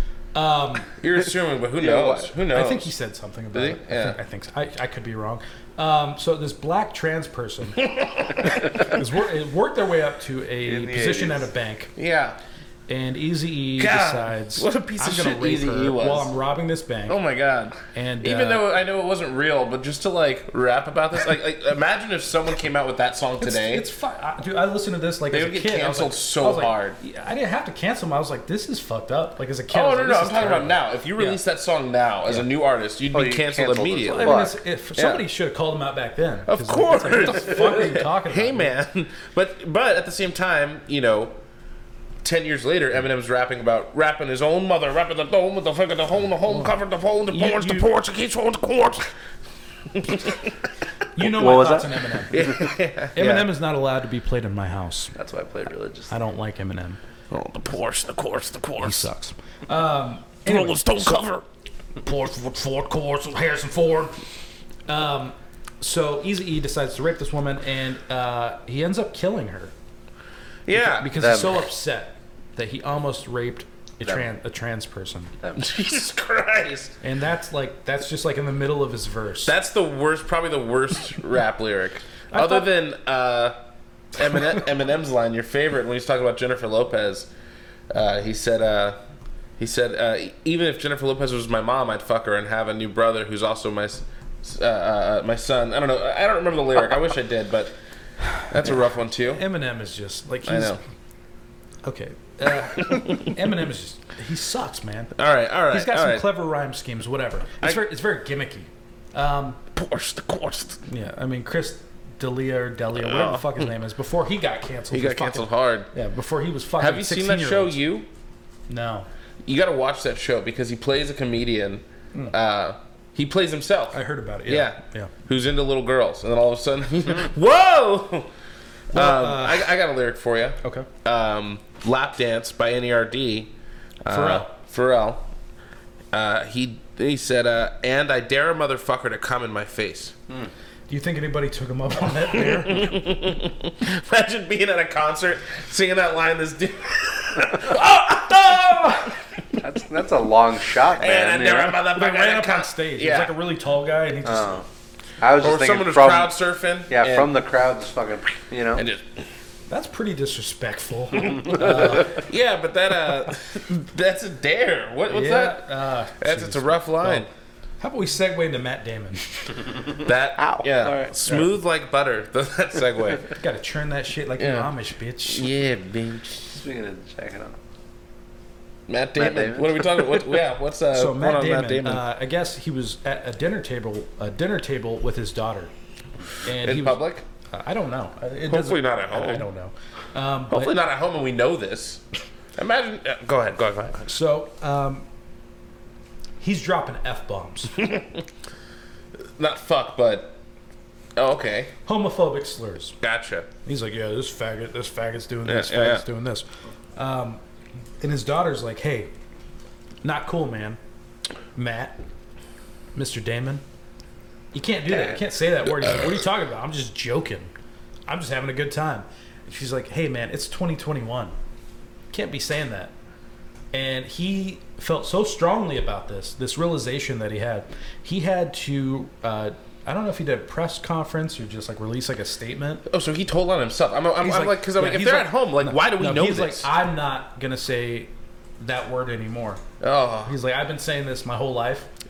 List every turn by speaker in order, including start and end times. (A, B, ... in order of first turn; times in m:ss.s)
0:00.4-0:01.0 A
0:01.0-0:02.9 B
0:01.8-0:02.3 C
0:02.5-0:07.9 A
0:03.5-0:04.2 B
0:07.8-0:09.0 B
0:08.4-0:11.9 A
0:10.6-0:11.5 C
0:12.0-0:12.4 B
0:12.9-0:17.2 A
0:13.8-0:16.3 B
0:17.1-0:23.9 B
0:17.9-0:18.6 A
0:23.4-0:31.4 A
0:25.3-0:27.0 B
0:29.7-0:34.4 B
0:33.1-0:34.6 C
0:34.1-0:38.7 A
0:35.0-0:35.2 B
0:36.5-0:41.4 B
0:42.2-0:49.1 B
0:47.3-0:47.9 A
0:49.9-0:50.6 B
0:51.2-0:52.6 A
0:51.2-0:52.5 C
0:52.3-0:53.5 B
0:53.2-0:55.1 A
0:55.2-0:56.1 C
0:56.1-0:57.0 A
0:57.3-0:59.1 B
0:58.8-1:01.2 A
1:00.5-1:01.4 B
1:02.0-1:04.2 A
1:04.9-1:09.7 A
1:10.7-1:11.1 B
1:10.7-1:15.4 A
1:11.2-1:11.6 C
1:15.6-1:17.0 B
1:17.0-1:19.5 A
1:19.4-1:23.6 B
1:22.3-1:22.7 A
1:24.2-1:27.3 B
1:27.9-1:29.0 B
1:29.6-1:37.7 B
1:38.5-1:39.4 B
1:38.6-1:40.8 A
1:40.4-1:40.8 B
1:41.8-1:45.1 A
1:42.8-1:43.3 B
1:45.2-1:46.3 B
1:45.7-1:49.6 A
1:49.8-1:50.8 B
1:50.9-1:57.8 A
1:53.0-1:53.7 B
1:54.9-1:55.9 B
1:56.8-1:58.1 B
1:58.7-1:59.1 A
1:59.4-2:08.3 B
2:03.9-2:05.1 A
2:08.9-2:13.5 B
2:08.9-2:09.7 A
2:10.6-2:10.9 A
2:14.0-2:15.2 B
2:14.1-2:14.5 A
2:16.1-2:20.1 B
2:20.9-2:22.9 A
2:22.3-2:29.2 B
2:28.6-2:29.1 A
2:29.6-2:31.8 C
2:30.8-2:33.4 B
2:31.9-2:34.6 A
2:34.3-2:34.6 C
2:35.2-2:36.3 C
2:35.4-2:37.4 B
2:36.9-2:38.8 C
2:38.8-2:39.3 B
2:39.7-2:42.2 A
2:41.2-2:47.3 B
2:45.1-2:47.3 A
2:47.8-2:49.7 A
2:50.0-2:53.3 B
2:50.4-2:51.1 C
2:53.3-2:55.5 A
2:54.4-2:54.7 B
2:55.2-2:56.6 B
2:56.5-2:57.6 C
2:58.9-3:02.0 B
2:59.2-3:00.2 C
3:00.9-3:05.7 A
3:06.4-3:10.8 A
3:06.6-3:07.2 B
3:08.5-3:09.5 B
3:10.5-3:12.0 B
3:12.6-3:14.1 B
3:14.1-3:15.0 A
3:16.4-3:17.8 A
3:17.8-3:18.2 B
3:19.4-3:20.4 B
3:21.2-3:21.7 B
3:21.9-3:23.0 A
3:23.0-3:23.5 B
3:23.6-3:27.4 A
3:25.5-3:26.0 B
3:28.0-3:29.1 A
3:30.0-3:30.8 A
3:31.6-3:32.0 A
3:33.0-3:33.6 A
3:34.5-3:37.5 A
3:38.1-3:41.4 A
3:42.1-3:42.9 A
3:43.7-3:52.9 A
3:52.9-3:56.7 B
3:54.2-3:59.6 A
3:59.8-4:00.4 B
4:00.2-4:01.9 A